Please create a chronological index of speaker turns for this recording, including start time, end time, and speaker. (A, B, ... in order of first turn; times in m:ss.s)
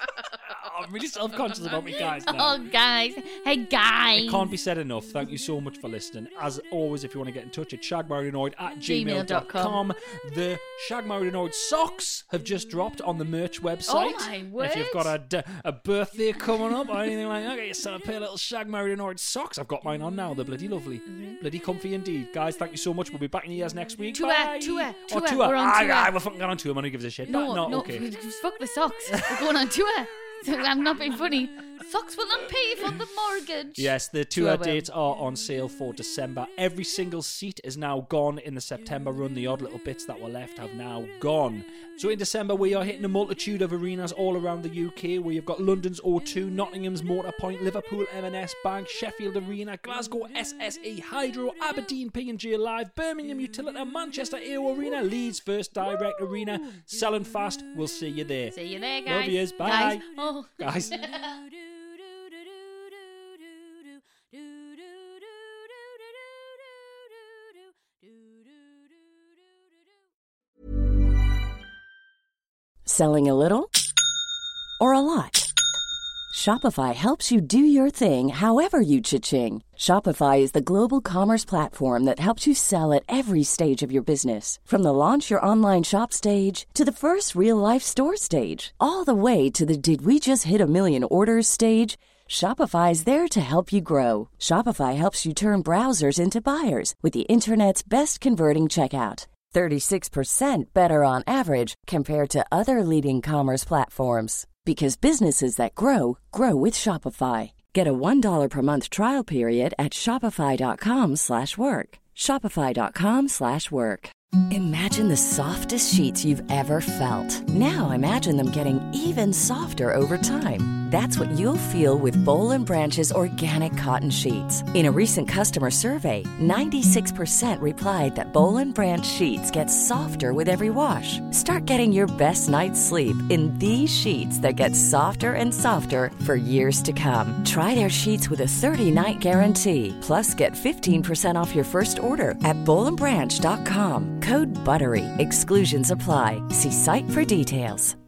0:00.4-0:02.6 A
0:02.3-0:04.5 B
0:04.2-0:28.1 A
0:08.8-0:09.8 B
0:13.9-0:15.1 B
0:21.1-0:21.4 B
0:24.1-0:26.1 B
0:27.3-0:34.9 B
0:29.1-0:29.5 A
0:33.8-1:00.0 A
0:58.5-1:01.4 B
1:00.6-1:01.1 A
1:12.8-1:13.7 C
1:14.8-1:15.5 C
1:16.3-2:27.9 C